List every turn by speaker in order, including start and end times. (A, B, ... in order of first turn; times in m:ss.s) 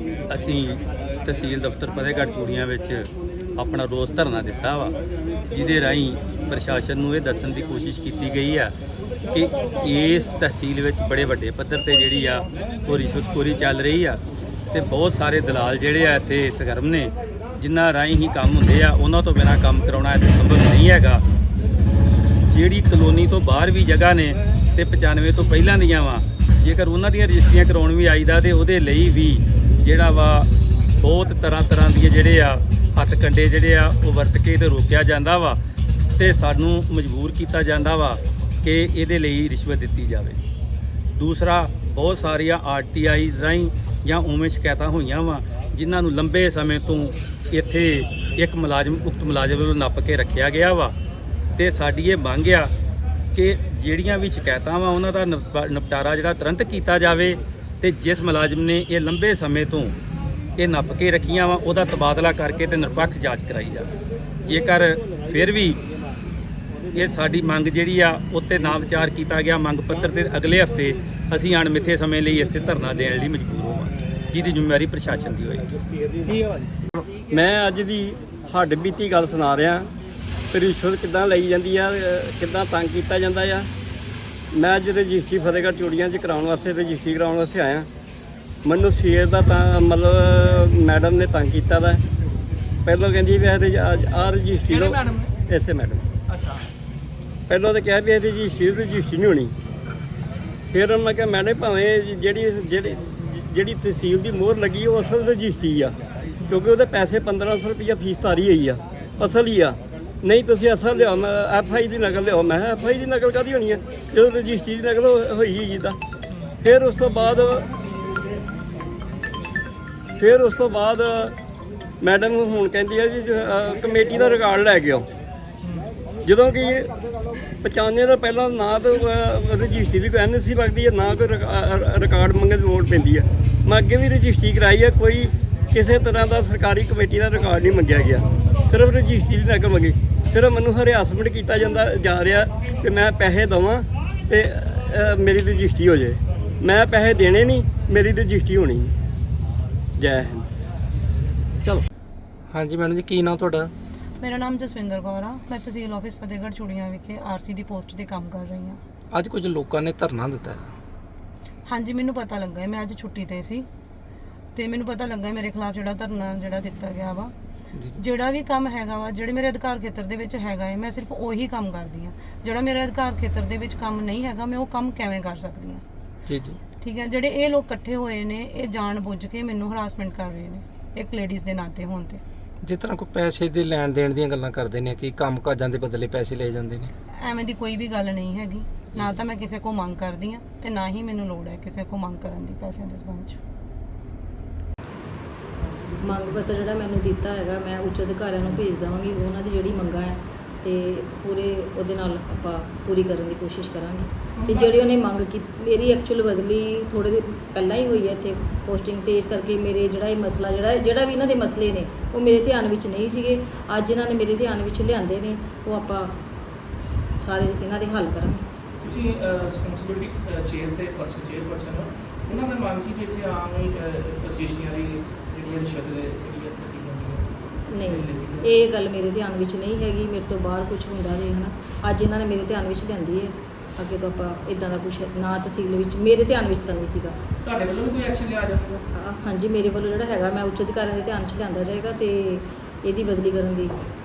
0:00.3-0:04.9 A
0:05.5-0:08.7 A
0:09.3-0:14.2 A
0:14.7-0:21.2 A
0:22.5-0:30.5 A
0:31.0-0:35.6 A
0:36.2-0:40.4 A
0:41.2-0:50.9 A
0:51.6-0:52.7 A
0:53.3-0:59.9 A
1:00.6-1:03.9 A
1:04.4-1:05.8 A
1:06.9-1:15.7 A
1:17.3-1:19.8 B
1:20.5-1:23.7 B
1:24.5-1:27.9 B
1:28.6-1:32.0 B
1:32.8-1:36.0 B
1:34.6-1:35.3 C
1:36.3-1:36.7 C
1:37.5-1:39.5 B
1:40.7-1:46.0 B
1:46.5-1:56.0 B
1:56.6-1:57.7 B
2:00.2-2:01.3 B
2:02.0-2:05.1 B
2:05.6-2:05.9 C
2:06.2-2:06.9 B
2:07.6-2:28.9 B
2:30.0-2:30.5 B
2:32.5-2:33.7 D
2:34.2-2:38.8 E
2:39.1-2:40.6 D
2:41.6-2:43.7 E
2:44.5-2:47.3 E
2:48.0-2:55.8 E
2:56.2-2:56.6 D
2:56.8-3:02.2 E
3:02.6-3:06.9 D
3:07.2-3:13.4 E
3:15.7-3:16.6 C
3:16.0-3:36.2 F
3:24.4-3:25.0 C
3:37.2-3:38.4 F
3:38.8-3:48.5 C
3:47.7-3:57.2 F
3:57.4-3:58.8 C
3:58.9-4:03.8 F